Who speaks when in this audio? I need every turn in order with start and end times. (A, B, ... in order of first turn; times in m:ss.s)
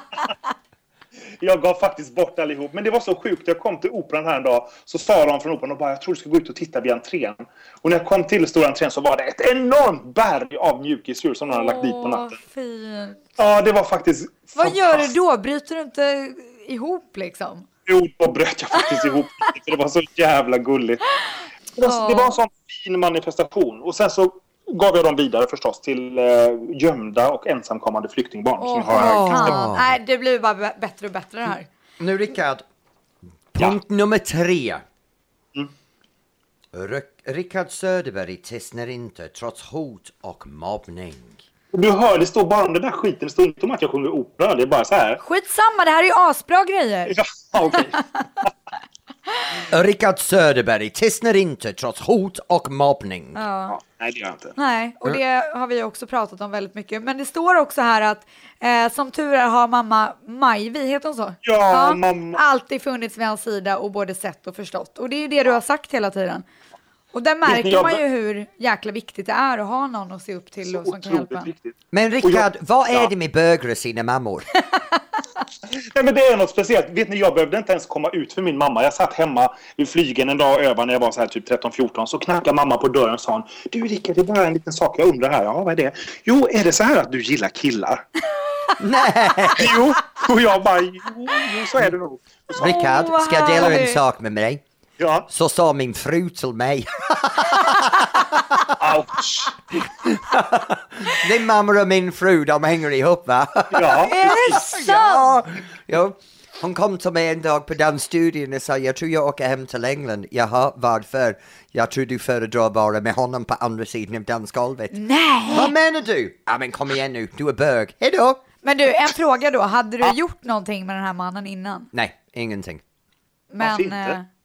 0:01.4-0:12.3 A
0:11.5-0:13.2 B
0:13.4-0:15.1 A
0:14.6-0:17.7 B
0:17.9-0:21.0 A
0:21.8-0:29.6 A
0:21.9-0:22.4 B
0:28.6-0:31.7 B
0:28.9-0:30.0 C
0:32.0-0:32.6 C
0:33.5-0:34.8 C
0:36.7-0:41.4 C
0:41.7-0:45.2 A
0:45.2-0:47.2 B
0:47.1-0:48.1 A
0:49.6-0:53.4 C
0:53.4-0:53.8 B
0:53.7-0:54.6 A
0:54.6-1:06.4 B
1:01.4-1:02.4 A
1:07.1-1:11.5 B
1:07.4-1:08.0 A
1:10.6-1:13.1 A
1:11.9-1:14.5 C
1:15.7-1:28.1 A
1:28.8-1:29.8 C
1:29.6-1:32.8 A
1:32.6-1:34.0 B
1:32.6-1:34.6 C
1:35.0-1:35.3 A
1:35.3-1:38.7 C
1:38.8-1:39.6 A
1:40.0-1:55.0 C
1:43.7-1:44.7 A
1:44.0-1:45.3 B
1:54.9-1:55.7 B
1:55.5-1:58.4 C
1:58.6-2:01.9 B
2:01.9-2:02.8 C
2:03.5-2:04.3 B
2:03.6-2:04.2 A